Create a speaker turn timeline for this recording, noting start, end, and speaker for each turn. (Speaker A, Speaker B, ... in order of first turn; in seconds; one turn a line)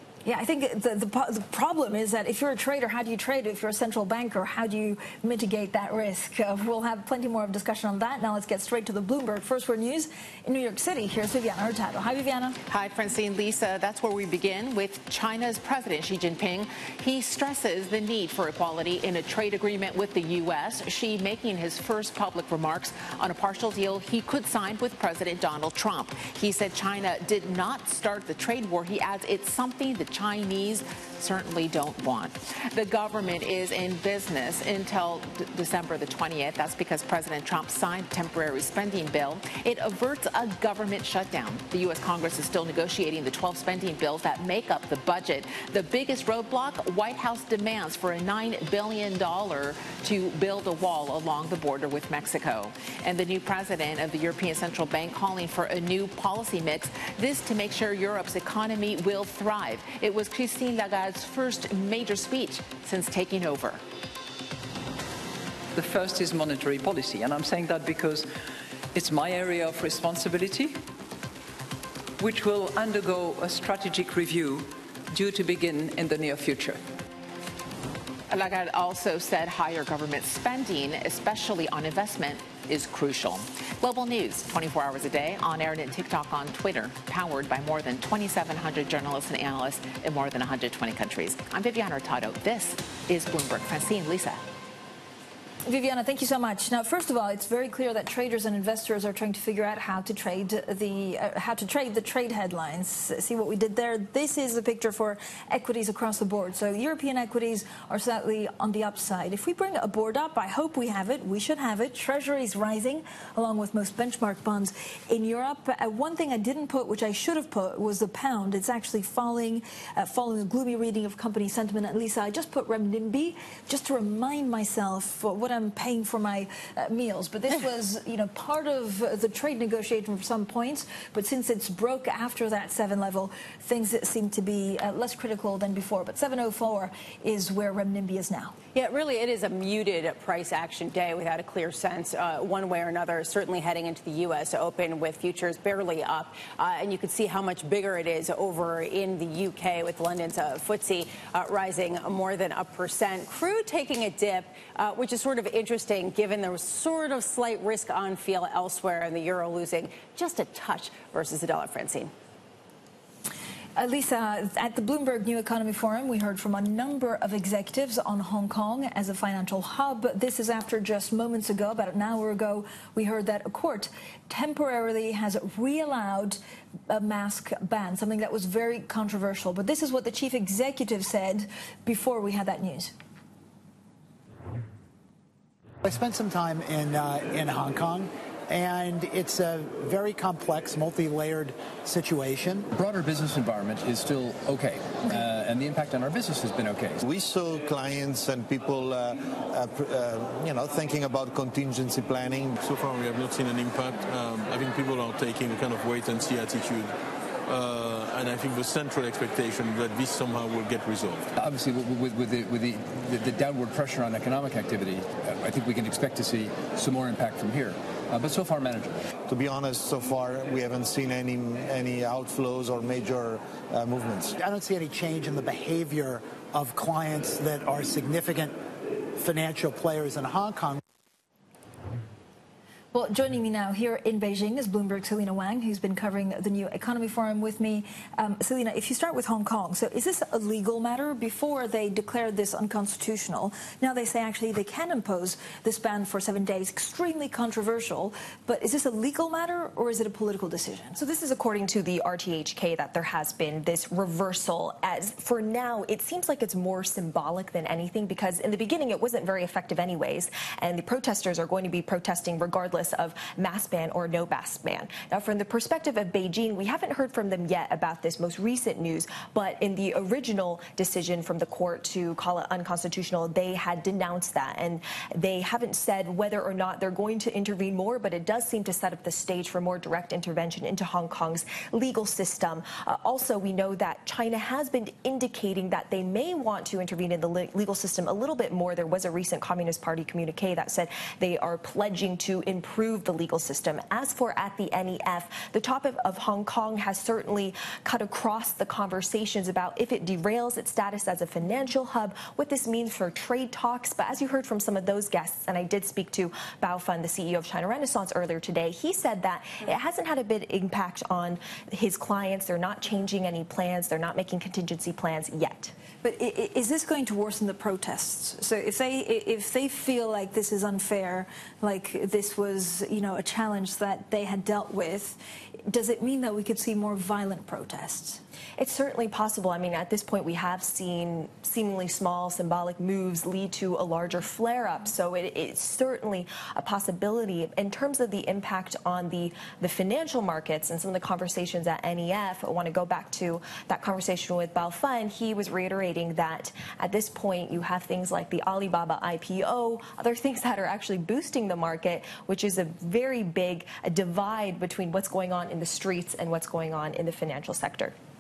Speaker A: 0.2-12.6
Speaker B: 12.7-63.8
Speaker C: 65.7-68.3
Speaker C: 68.9-70.8
Speaker C: 72.2-76.8
Speaker B: 78.3-94.4
Speaker A: 95.6-138.6
Speaker D: 138.7-162.1
Speaker A: 163.8-182.9
Speaker E: 185.8-192.7
Speaker F: 192.7-197.0
Speaker G: 197.0-202.6
Speaker H: 202.6-206.9
Speaker H: 207.5-211.4
Speaker F: 211.4-219.1
Speaker G: 219.3-224.4
Speaker E: 224.4-230.8
Speaker A: 232.9-251.0
Speaker I: 251.0-315.7
Speaker A: 316.0-328.2
Speaker I: 328.6-357.9